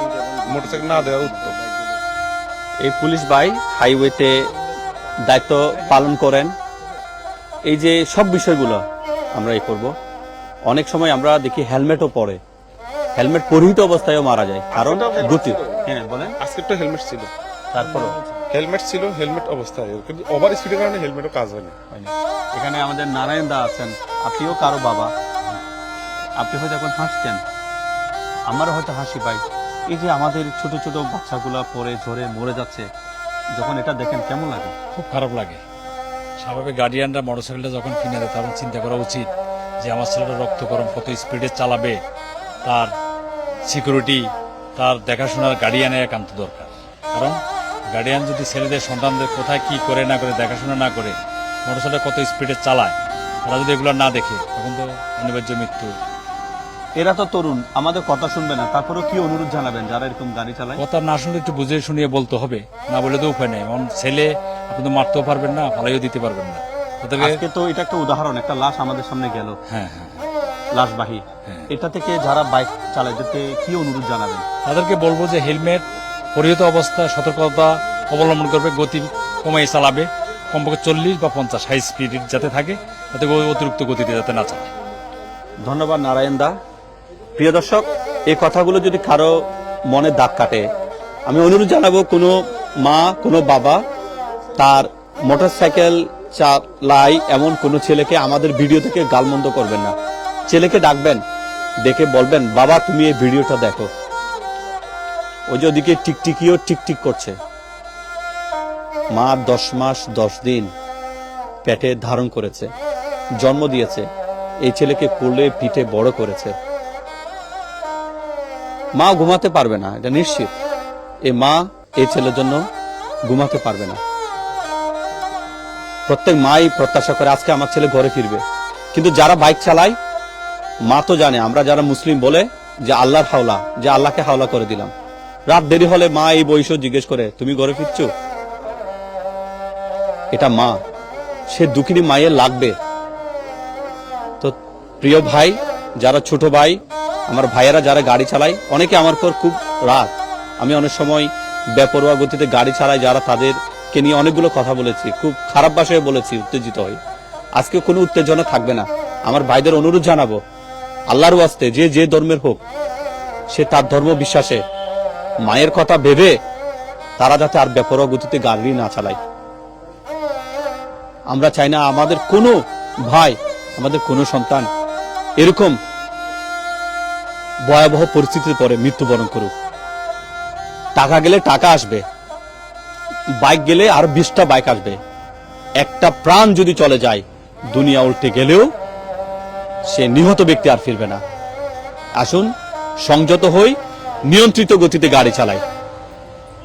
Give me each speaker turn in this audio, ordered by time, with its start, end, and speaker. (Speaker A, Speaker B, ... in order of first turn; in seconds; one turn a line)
Speaker A: 0.4-1.6
Speaker B: 2.8-4.5
Speaker B: 5.3-6.5
Speaker B: 7.7-8.8
Speaker B: 9.3-9.9
Speaker B: 10.7-12.4
Speaker B: 13.2-16.4
Speaker A: 14.7-15.8
Speaker A: 16.4-17.3
Speaker B: 17.7-18.2
Speaker A: 18.5-21.8
Speaker B: 21.9-25.1
Speaker B: 26.4-27.4
Speaker B: 28.5-32.9
Speaker B: 33.5-34.7
Speaker C: 34.9-35.6
Speaker C: 36.4-39.3
Speaker C: 39.8-42.0
Speaker C: 42.6-42.9
Speaker C: 43.6-52.9
Speaker C: 53.5-56.0
Speaker B: 57.0-60.8
Speaker C: 60.8-67.4
Speaker B: 67.2-69.6
Speaker C: 69.7-70.3
Speaker B: 70.7-74.4
Speaker C: 74.6-84.7
Speaker B: 85.6-86.5
Speaker B: 87.4-89.3
Speaker B: 89.9-90.7
Speaker B: 91.3-93.8
Speaker B: 94.6-99.9
Speaker B: 100.5-101.2
Speaker B: 101.8-103.9
Speaker B: 105.5-107.4
Speaker B: 109.1-110.7
Speaker B: 111.6-112.7
Speaker B: 113.4-114.0
Speaker B: 114.6-116.5
Speaker B: 119.0-120.5
Speaker B: 121.3-122.6
Speaker B: 123.3-124.0
Speaker B: 126.1-130.0
Speaker B: 130.9-134.9
Speaker B: 135.5-138.1
Speaker B: 140.3-140.8
Speaker B: 141.5-142.8
Speaker B: 144.4-157.0
Speaker B: 157.6-160.4
Speaker B: 161.1-162.6
Speaker B: 163.5-164.6
Speaker B: 165.4-166.3
Speaker B: 167.2-169.2
Speaker B: 171.3-174.7
Speaker B: 175.4-175.8
Speaker B: 177.7-179.5
Speaker B: 180.9-182.0
Speaker B: 183.4-185.0
Speaker B: 185.8-188.7
Speaker B: 189.9-191.2
Speaker B: 192.2-192.5
Speaker B: 193.0-193.8
Speaker B: 194.3-195.6